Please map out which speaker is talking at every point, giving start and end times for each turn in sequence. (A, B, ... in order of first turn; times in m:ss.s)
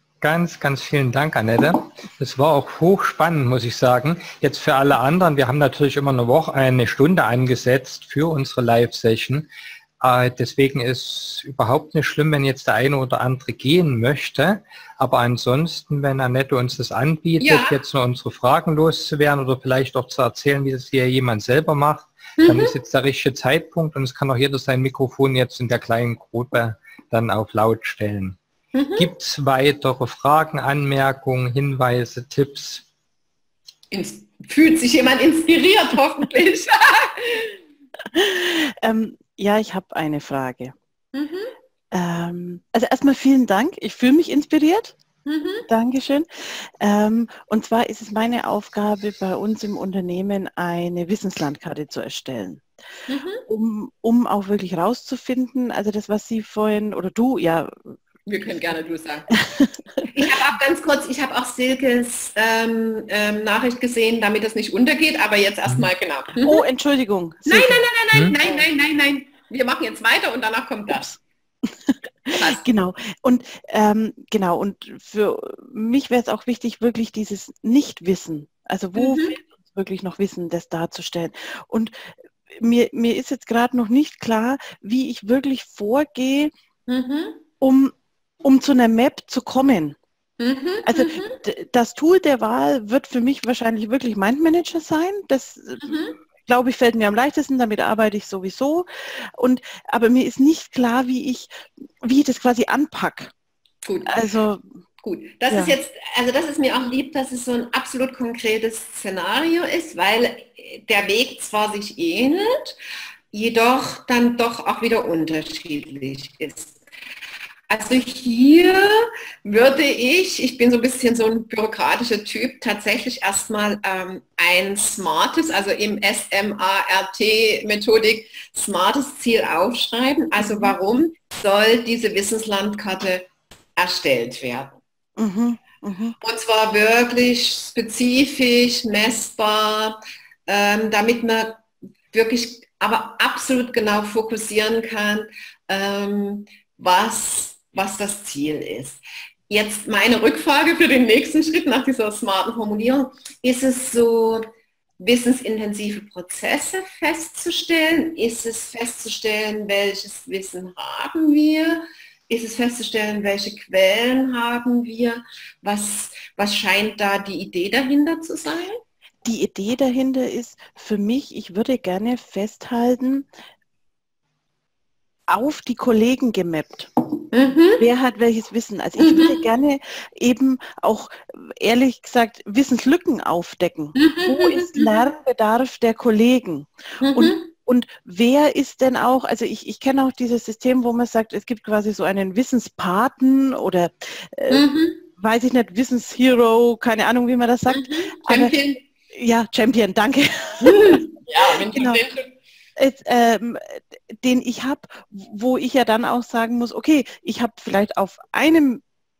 0:00.2-0:09.5 A
0:10.0-0:28.4 A
0:17.4-0:17.8 B
0:22.4-0:22.8 B
0:28.7-0:29.1 B
0:29.0-0:32.8 A
0:33.9-0:37.6 B
0:38.1-0:40.7 C
0:41.1-0:41.5 B
0:41.9-0:45.0 C
0:45.2-0:45.7 B
0:45.7-0:52.6 C
0:53.1-0:53.4 B
0:53.5-0:58.0 C
0:58.2-0:59.3 B
0:59.4-1:00.0 C
1:00.0-1:06.6 B
1:06.4-1:07.8 C
1:07.4-1:11.2 B
1:11.9-1:26.5 C
1:12.3-1:12.6 B
1:19.0-1:19.3 B
1:26.9-1:27.4 B
1:27.6-1:30.0 C
1:30.4-1:31.4 B
1:30.8-1:43.3 C
1:35.8-1:36.2 B
1:43.8-1:44.2 B
1:44.0-1:44.6 C
1:45.0-1:52.7 B
1:45.5-1:45.8 C
1:53.3-1:56.8 B
1:57.7-2:14.8 B
2:10.4-2:10.7 C
2:15.2-2:16.2 C
2:16.2-2:34.4 B
2:35.0-2:48.8 B
2:49.2-2:53.3 C
2:55.3-2:56.9 C
2:57.3-2:57.8 B
2:57.8-3:18.5 C
2:59.0-2:59.4 B
3:04.0-3:04.9 B
3:07.0-3:07.5 B
3:14.5-3:15.0 B
3:17.7-3:18.8 B
3:19.1-3:22.0 C
3:20.6-3:22.3 B
3:22.8-3:28.8 C